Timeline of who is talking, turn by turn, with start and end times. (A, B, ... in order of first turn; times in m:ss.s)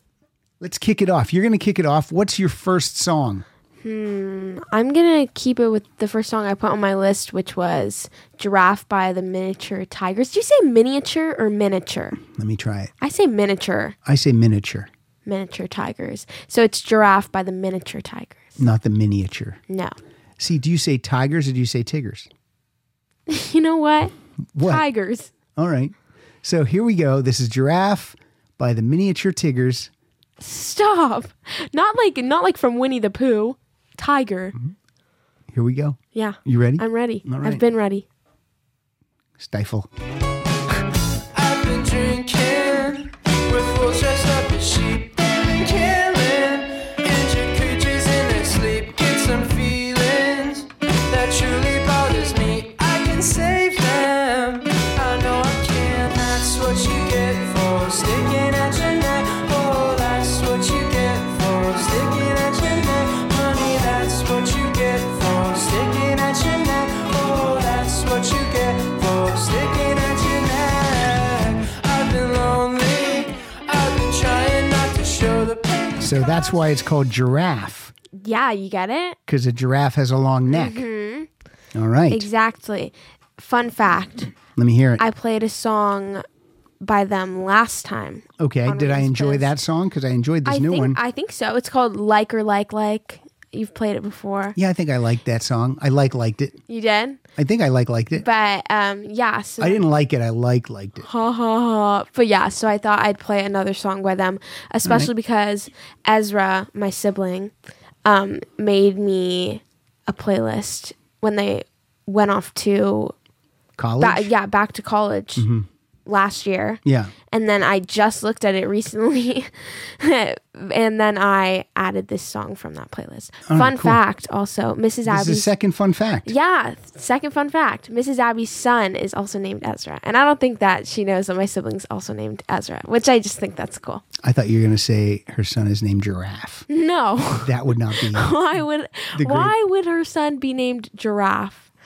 0:00.6-0:03.4 A
0:03.8-0:12.2 B
0:12.2-0:12.9 A
0:13.0-0:14.0 B
0:14.0-0:14.9 A
0:15.2-0:18.6 B
0:18.6-0:19.6 A
0:19.7-0:20.0 B
0:20.4-0:22.3 A
0:23.3-0:25.3 B
0:24.5-0:24.8 A
0:25.5-0:29.9 A
0:30.4-0:34.6 B
0:35.5-0:37.6 A
0:36.1-0:38.0 B
0:39.4-0:39.9 A
0:41.4-1:16.2 C
1:16.0-1:17.9 A
1:18.2-1:19.2 B
1:19.3-1:20.8 A
1:20.5-1:21.3 B
1:21.7-1:22.3 A
1:22.1-1:24.3 B
1:24.5-1:25.0 A
1:25.0-1:26.2 B
1:26.8-1:29.5 B
1:28.4-1:31.0 A
1:30.4-1:34.6 B
1:34.6-1:36.6 A
1:36.7-1:37.2 B
1:37.4-1:38.2 A
1:38.1-1:39.8 B
1:39.6-1:41.1 A
1:41.0-1:47.5 B
1:44.8-1:45.1 A
1:48.0-1:53.1 B
1:53.8-1:54.3 A
1:54.0-1:55.5 B
1:55.4-1:55.7 A
1:56.0-2:05.5 B
1:56.8-1:57.1 A
2:03.5-2:04.0 A
2:05.0-2:06.3 A
2:06.3-2:14.0 B
2:14.2-2:16.6 A
2:16.7-2:21.7 B
2:17.4-2:18.4 A
2:19.1-2:19.5 A